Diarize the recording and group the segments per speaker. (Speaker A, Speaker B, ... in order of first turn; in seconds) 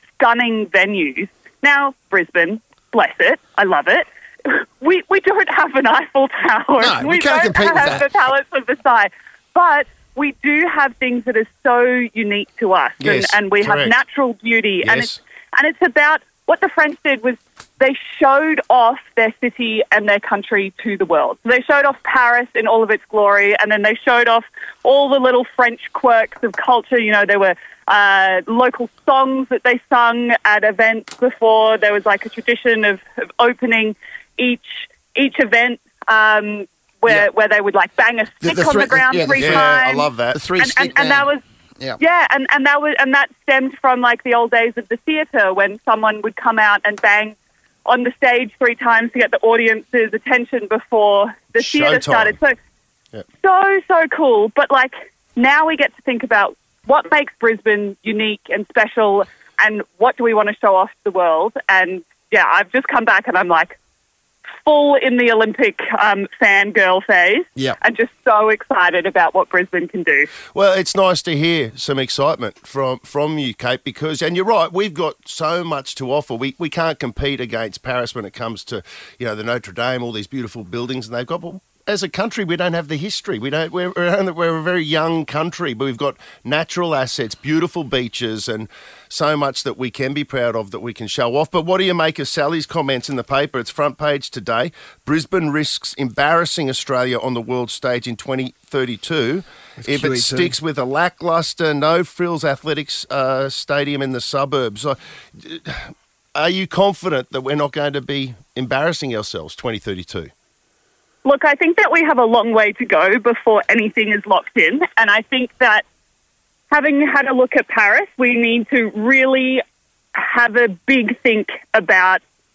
Speaker A: 0.2-41.4, 42.0-47.4, 47.9-52.6, 53.4-63.8, 64.6-70.3, 111.2-115.8, 116.7-119.6, 120.2-122.2
Speaker B: 6.8-8.1, 38.4-39.8, 40.3-42.0, 99.8-100.5
Speaker C: 13.0-14.0, 14.8-15.2, 39.4-40.4, 51.6-52.4, 70.5-110.3